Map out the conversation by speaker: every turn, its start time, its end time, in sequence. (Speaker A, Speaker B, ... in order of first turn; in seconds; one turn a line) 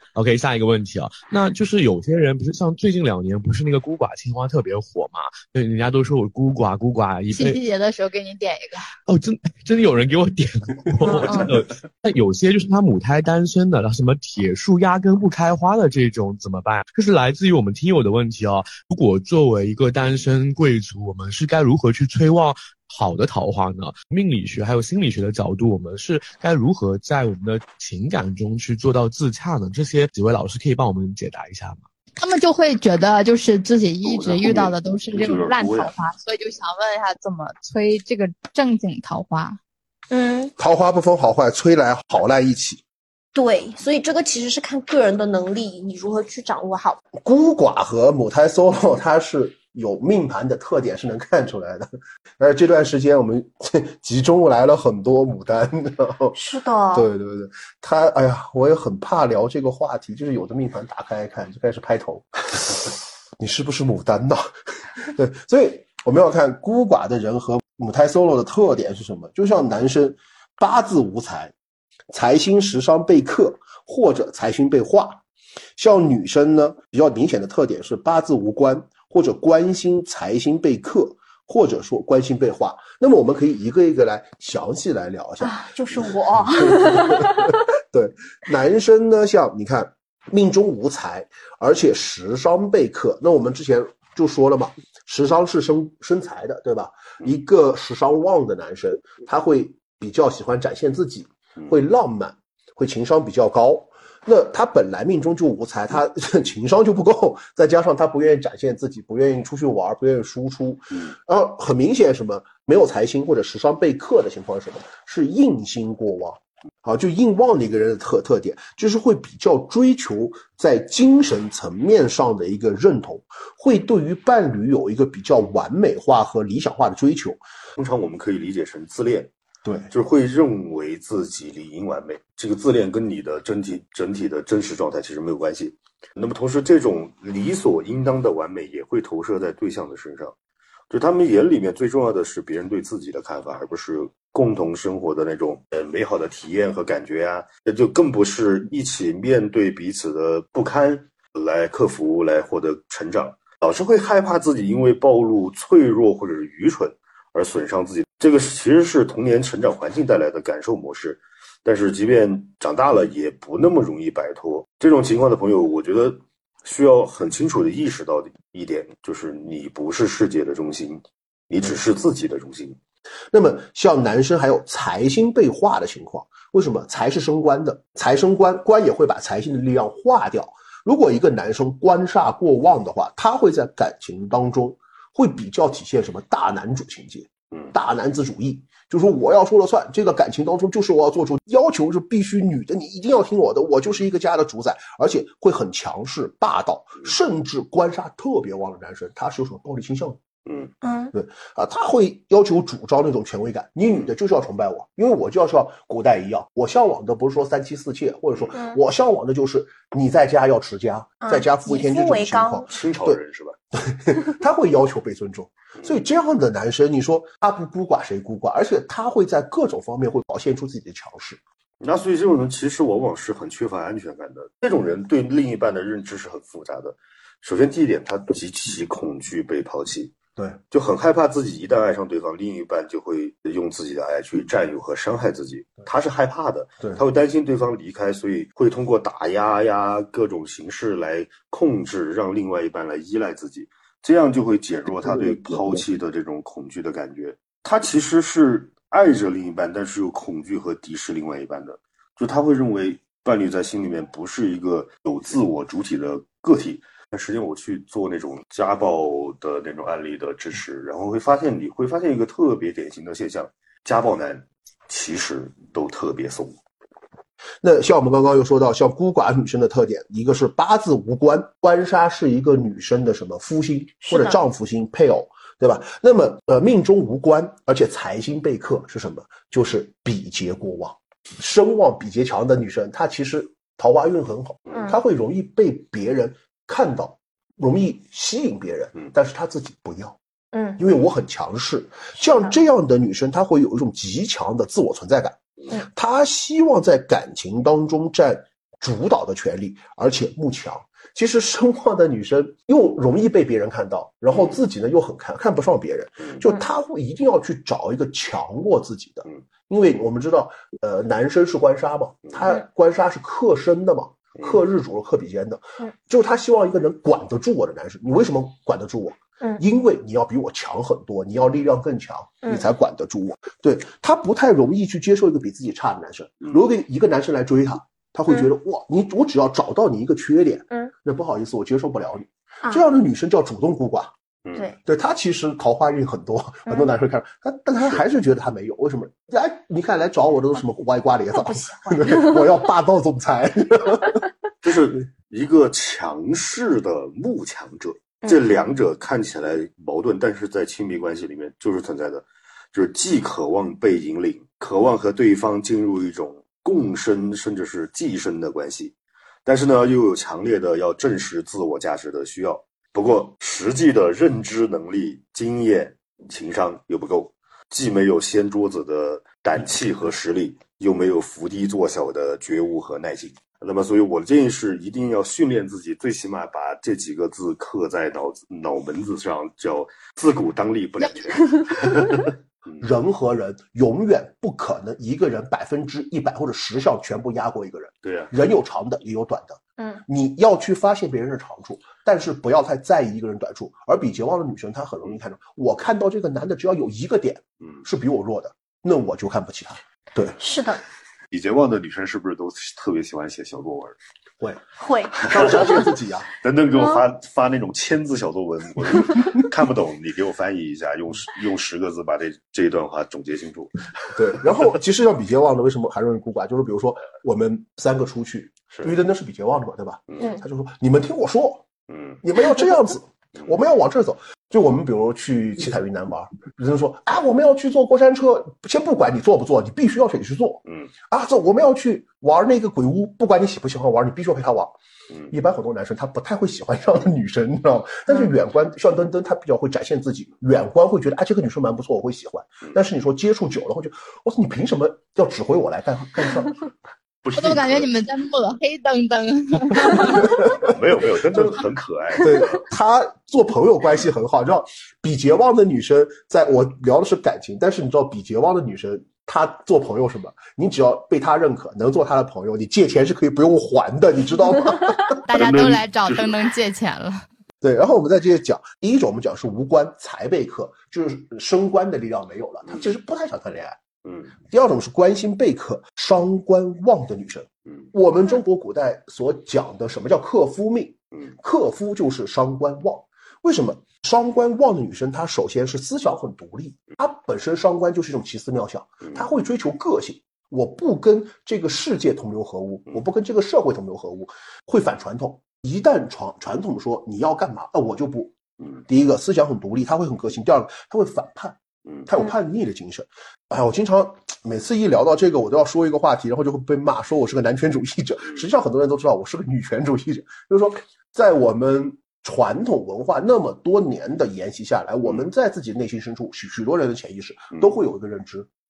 Speaker A: 0.1-7.6
Speaker B: 7.3-8.9
Speaker A: 9.1-31.8
Speaker B: 11.1-11.5
Speaker B: 32.2-39.6
Speaker C: 34.0-35.9
Speaker D: 40.1-40.5
Speaker E: 40.6-42.8
Speaker D: 43.3-47.0
Speaker E: 47.2-56.4
Speaker D: 56.3-57.1
Speaker E: 56.9-71.5
Speaker E: 72.1-75.2
Speaker E: 75.8-127.4
Speaker D: 85.4-87.6
Speaker C: 127.8-129.3
Speaker E: 129.6-129.9
Speaker C: 129.9-140.3
Speaker C: 140.9-172.8
Speaker E: 173.3-200.2
Speaker C: 200.4-200.7
Speaker D: 200.8-201.1
Speaker E: 201.1-213.2
Speaker D: 208.5-208.8
Speaker D: 211.2-212.7
Speaker C: 212.7-213.6
Speaker E: 213.8-221.4
Speaker C: 221.8-230.1
Speaker C: 230.7-266.6
Speaker E: 267.6-290.2
Speaker D: 274.0-274.4
Speaker D: 290.5-290.8
Speaker E: 290.8-334.1
Speaker E: 334.9-344.2
Speaker D: 341.3-342.5
Speaker C: 344.6-358.9
Speaker D: 348.2-348.6
Speaker C: 359.4-382.8
Speaker E: 382.8-400.4
Speaker C: 388.0-388.3
Speaker D: 389.8-390.0
Speaker D: 400.4-400.8
Speaker C: 401.3-404.0
Speaker D: 404.8-405.9
Speaker E: 405.3-406.3
Speaker C: 405.3-405.7
Speaker C: 406.4-414.4
Speaker D: 406.7-407.0
Speaker E: 414.1-421.6
Speaker D: 420.2-420.4
Speaker C: 421.9-422.2
Speaker E: 422.2-434.8
Speaker E: 435.3-446.6
Speaker C: 447.2-447.9
Speaker B: 447.4-450.4
Speaker E: 449.9-450.7
Speaker C: 450.0-452.5
Speaker E: 452.2-465.2
Speaker B: 465.3-467.2
Speaker C: 465.3-466.3
Speaker E: 467.6-473.8
Speaker C: 474.0-474.3
Speaker E: 474.5-498.4
Speaker E: 498.9-518.5